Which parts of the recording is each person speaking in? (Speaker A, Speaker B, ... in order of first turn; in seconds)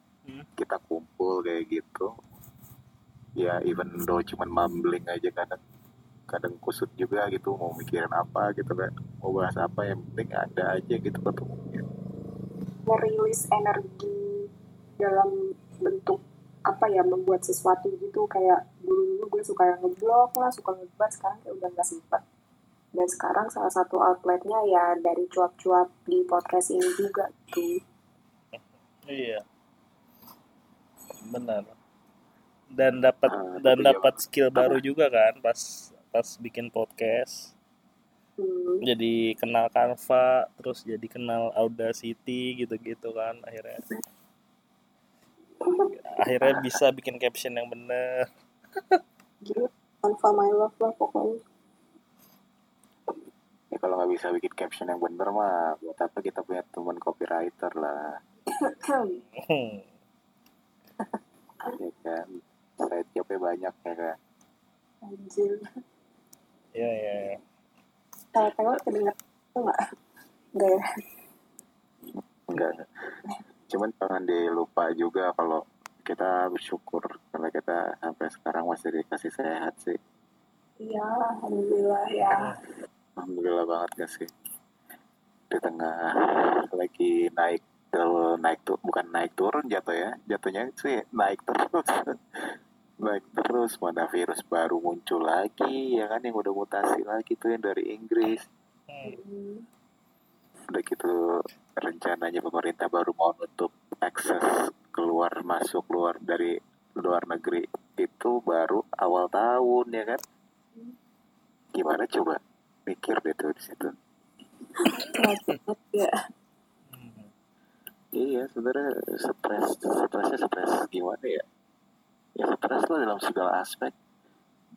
Speaker A: 0.6-2.1, 3.4-5.6, 6.3-11.8, 33.3-34.1, 53.7-58.2, 61.6-64.2, 72.5-72.8, 73.7-80.0, 83.2-84.3, 85.5-98.5, 100.7-101.1, 101.8-110.2, 111.7-113.9, 118.1-121.4, 122.4-123.9
Speaker B: 12.9-22.2, 23.0-27.7, 38.4-38.9, 45.6-45.9, 49.4-51.4, 58.6-59.2, 65.0-65.6, 68.3-69.8, 80.8-82.5, 99.0-99.6, 114.8-116.1
Speaker C: 28.6-29.4, 31.2-31.7, 32.8-37.5, 38.8-43.8, 46.0-48.2, 59.4-59.9, 66.8-67.4, 98.9-99.2, 116.9-117.3